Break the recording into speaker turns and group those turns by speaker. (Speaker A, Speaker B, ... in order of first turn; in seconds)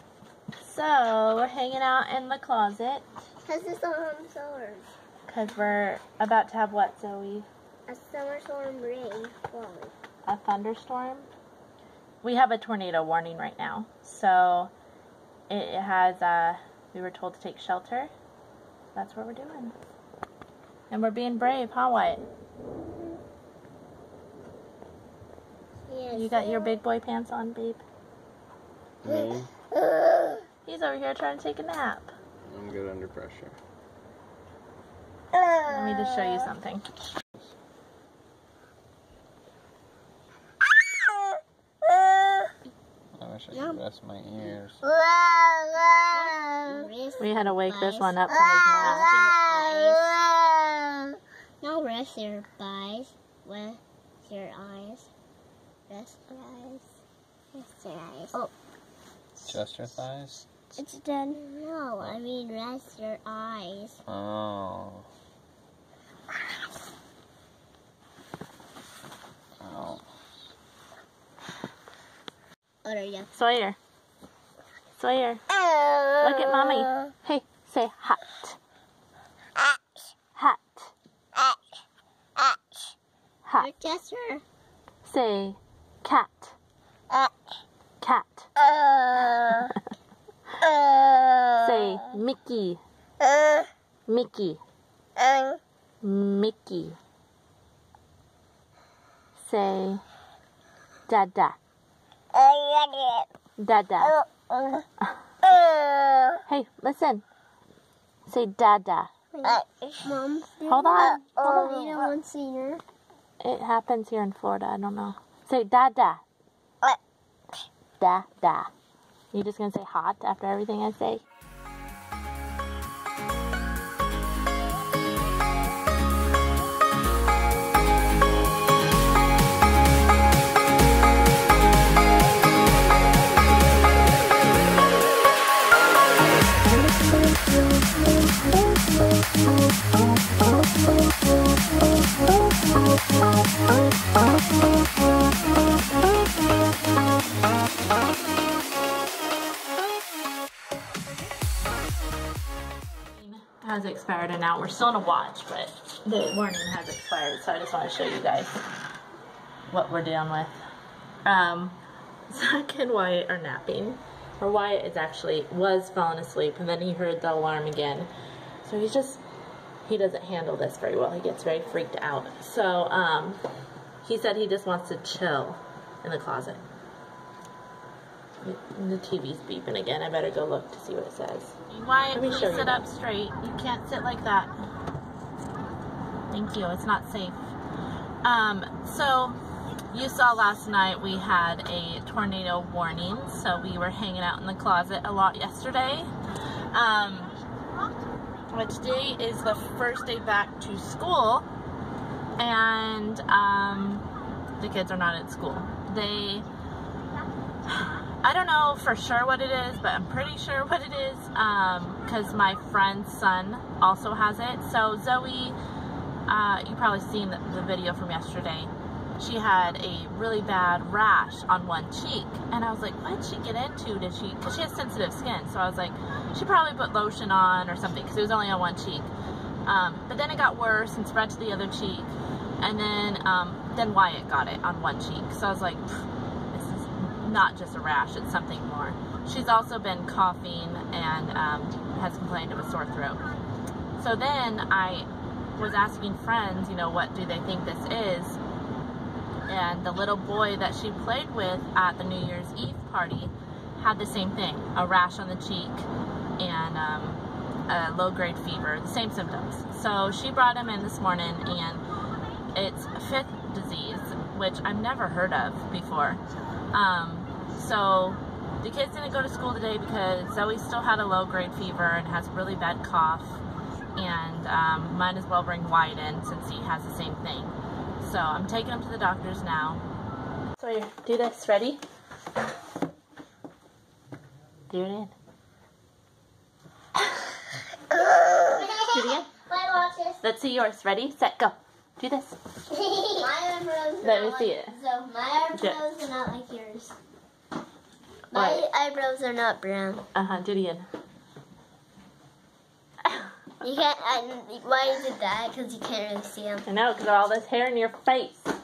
Speaker A: 0.6-3.1, 5.3-7.5, 10.3-11.3, 12.2-14.7, 15.5-18.1, 18.9-19.8, 20.9-22.3, 26.1-27.8, 30.7-32.1, 35.7-36.9, 47.2-49.1, 73.3-73.8, 75.0-75.4, 76.2-78.6, 80.4-80.9, 85.0-86.6, 88.0-88.5, 91.6-92.8, 94.1-94.6, 96.0-97.0, 99.4-100.0, 101.1-101.6, 103.6-104.2, 106.5-107.2, 108.3-109.1, 110.7-112.0, 113.4-116.2, 118.0-118.7, 119.3-121.2, 153.2-158.7, 159.7-160.6, 161.2-161.8, 162.3-168.1, 168.6-169.2, 169.8-173.4, 174.0-176.6, 178.4-184.5, 186.3-187.4, 188.2-189.4, 189.9-196.1, 196.7-197.4, 198.5-201.5, 202.4-204.1, 204.6-206.5, 207.7-215.6, 216.3-229.1, 229.7-235.9, 236.5-243.3, 244.0-248.4, 249.5-255.9, 256.4-261.8, 262.5-266.2, 266.7-273.4, 274.0-279.8, 280.6-281.8, 284.7-285.1, 288.9-289.3, 290.2-292.4, 294.0-294.8, 298.3-298.6, 300.1-300.9, 306.7-308.5
Speaker B: 3.5-4.9, 7.9-9.9, 25.9-26.8, 43.5-43.8, 45.1-48.2, 48.8-51.1, 51.6-55.1, 55.9-56.9, 57.5-58.5, 60.8-64.0, 72.8-73.3, 83.6-84.4, 88.8-89.7, 102.4-103.3, 109.3-112.8, 288.3-290.2, 292.7-296.9, 298.3-300.0, 303.6-306.7
Speaker C: 29.0-29.5, 32.5-33.6, 43.2-44.8, 59.5-60.5, 64.1-65.1, 69.6-70.0